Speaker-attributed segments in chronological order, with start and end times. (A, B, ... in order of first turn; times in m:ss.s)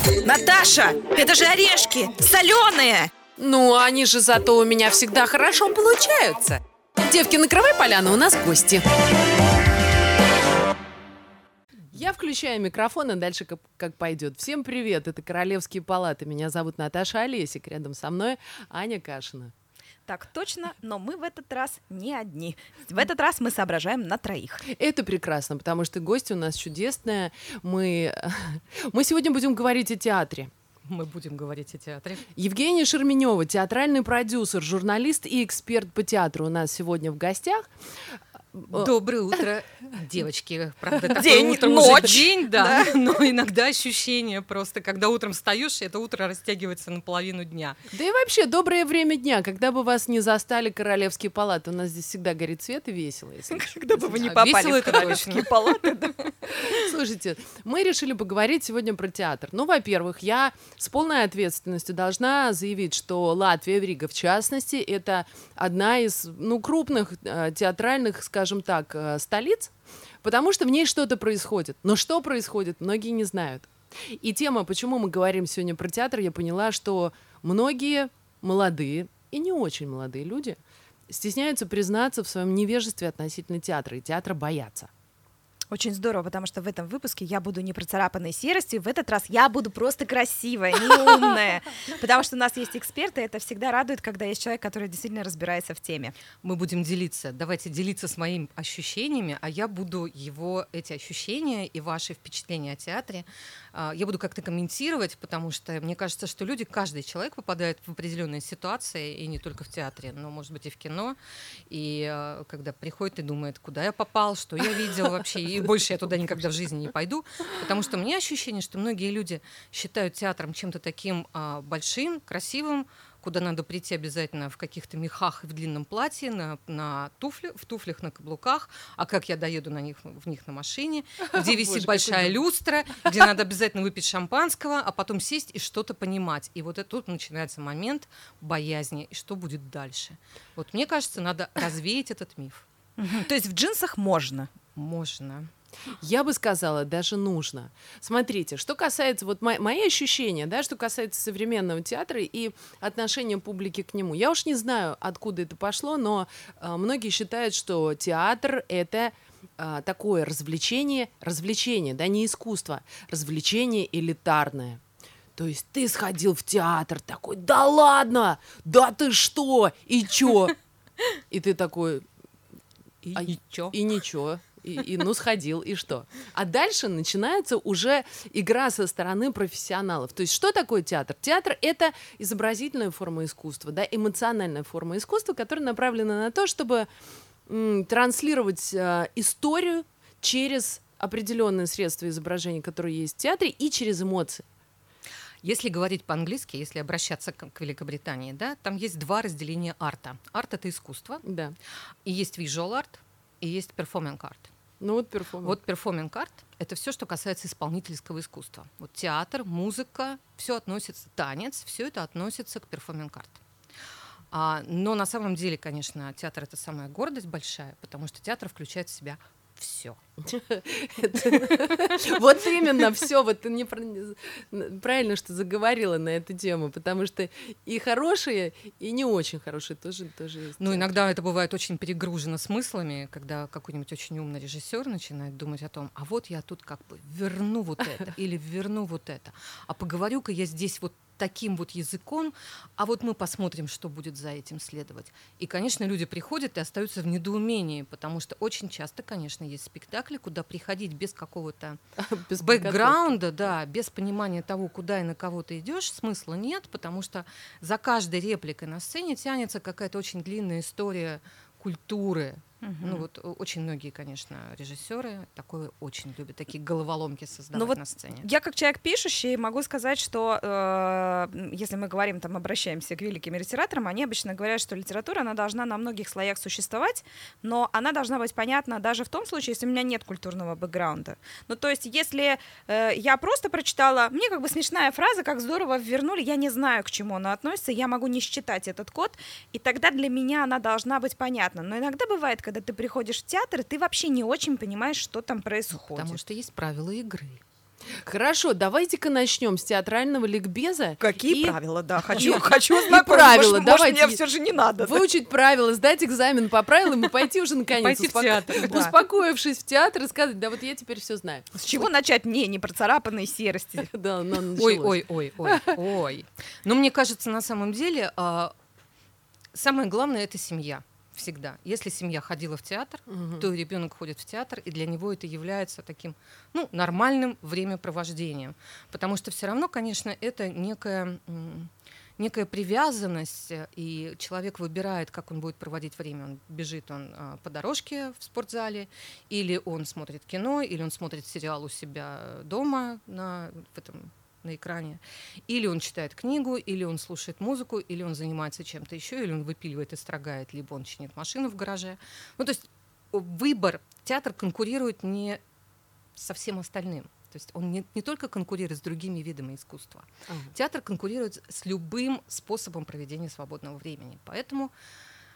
0:00.2-0:03.1 A
0:03.4-0:08.8 B
0:11.9-0:19.5 B
0:20.1-0:24.6 A
0:24.6-0:30.5 B
0:30.8-0:32.2 C
0:32.4-0:38.9 B
0:38.7-0:47.8 C
0:40.9-0:42.2 B
0:41.1-0:42.9 A
0:47.9-0:53.8 B
0:53.5-0:56.9 A
0:54.1-0:55.7 C
0:54.8-0:55.1 B
0:56.6-1:24.9 B
1:25.7-1:36.1 A
1:36.4-1:51.2 C
1:51.7-2:22.6 C
2:11.3-2:12.4 B
2:23.0-2:24.5 A
2:24.7-2:25.5 C
2:26.0-2:44.8 B
2:45.4-2:50.5 B
2:51.3-2:52.1 B
2:53.0-2:53.8 C
2:53.2-3:06.9 B
3:07.5-3:14.4 B
3:15.4-3:21.2 C
3:21.2-3:21.5 B
3:22.0-3:24.5 C
3:24.8-3:25.6 B
3:25.4-3:33.4 C
3:34.3-3:40.0 C
3:40.2-3:50.9 B
3:50.6-4:11.8 C
4:12.0-4:13.2 B
4:12.4-4:28.2 C
4:22.6-4:23.0 A
4:27.5-4:56.2 A
4:55.7-4:57.4 C
4:58.0-5:01.6 B
5:01.0-5:05.0 A
5:02.1-5:04.2 B
5:04.8-5:11.5 B
5:07.8-5:08.9 C
5:08.6-5:08.9 A
5:11.6-5:13.9 A
5:13.8-5:15.8 B
5:14.6-5:18.5 C
5:19.5-5:55.4 C
5:23.1-5:23.5 B
5:56.2-6:04.7 C